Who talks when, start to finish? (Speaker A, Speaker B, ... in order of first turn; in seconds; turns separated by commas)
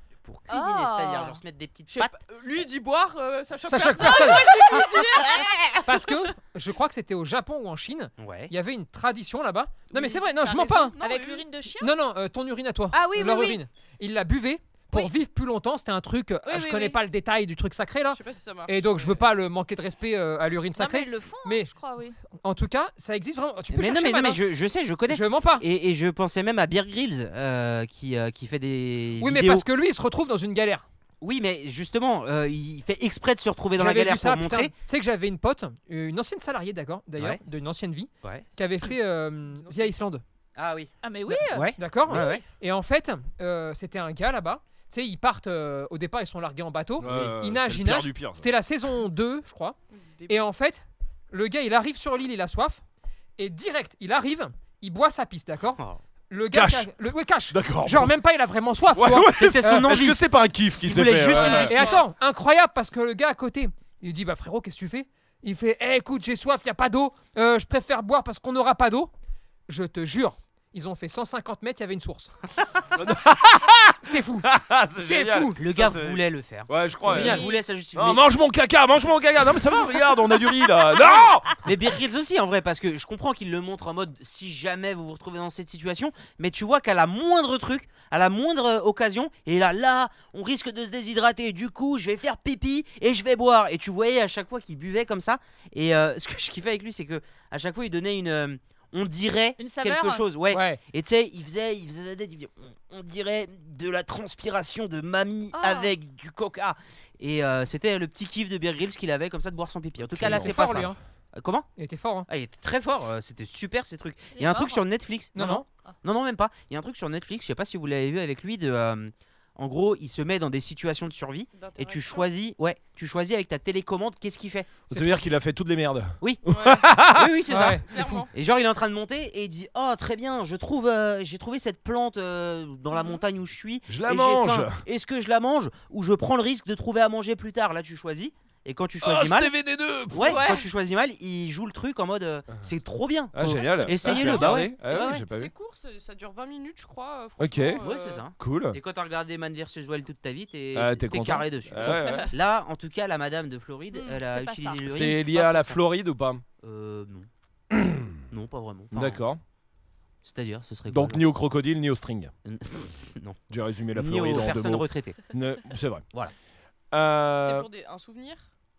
Speaker A: 0.2-2.2, Speaker B: 0.5-1.4, Speaker C: 1.9-5.9, Speaker D: 3.7-4.5, Speaker B: 4.1-5.5, Speaker D: 5.8-10.9, Speaker A: 8.2-8.5, Speaker C: 9.9-11.4, Speaker B: 10.7-11.9, Speaker D: 11.8-21.7, Speaker B: 12.9-13.6, Speaker B: 16.4-17.0, Speaker C: 18.1-19.2, Speaker B: 20.8-22.2, Speaker D: 22.4-24.4, Speaker A: 23.7-29.6, Speaker D: 25.1-25.6, Speaker D: 29.2-30.8, Speaker A: 31.2-34.7, Speaker D: 33.8-40.2, Speaker A: 40.5-42.4, Speaker B: 41.0-41.7, Speaker D: 41.8-49.8, Speaker E: 47.0-48.5, Speaker C: 49.9-50.4, Speaker D: 50.3-52.8, Speaker D: 53.4-59.9, Speaker E: 56.5-56.9, Speaker E: 57.5-58.1, Speaker E: 58.8-61.9, Speaker A: 59.3-60.2, Speaker A: 60.8-62.0, Speaker C: 61.3-61.9, Speaker D: 61.6-69.1, Speaker D: 69.7-72.3, Speaker E: 72.9-77.4, Speaker D: 74.0-75.6, Speaker A: 75.6-78.2, Speaker D: 77.0-77.4, Speaker B: 77.2-77.5, Speaker E: 77.9-81.6, Speaker A: 81.6-111.7, Speaker B: 99.6-100.2, Speaker D: 100.5-100.8, Speaker B: 105.5-105.9, Speaker E: 110.1-110.9, Speaker D: 110.2-111.0, Speaker D: 111.8-112.3, Speaker A: 112.3-124.9, Speaker B: 114.3-114.8, Speaker D: 115.3-115.7, Speaker C: 121.5-122.3, Speaker E: 124.9-127.4, Speaker D: 124.9-125.2, Speaker A: 126.2-126.5, Speaker C: 126.5-126.9, Speaker A: 127.0-139.5, Speaker D: 127.5-128.3, Speaker C: 127.5-128.3, Speaker C: 132.9-133.2, Speaker E: 133.9-134.8, Speaker E: 139.0-140.5, Speaker A: 140.1-145.2, Speaker C: 140.2-140.7, Speaker E: 143.3-145.5, Speaker C: 143.4-148.2, Speaker E: 147.4-147.8, Speaker A: 147.8-155.8, Speaker E: 148.4-148.8, Speaker E: 150.7-152.3, Speaker C: 151.8-152.3, Speaker B: 153.9-154.8, Speaker E: 154.9-156.4, Speaker A: 156.6-157.3, Speaker E: 157.7-158.2, Speaker A: 158.3-159.2, Speaker E: 158.9-159.4, Speaker A: 160.2-161.2, Speaker E: 160.9-162.3, Speaker A: 162.4-163.4, Speaker E: 163.5-166.0, Speaker A: 163.9-165.2, Speaker E: 166.9-167.7, Speaker C: 167.4-168.4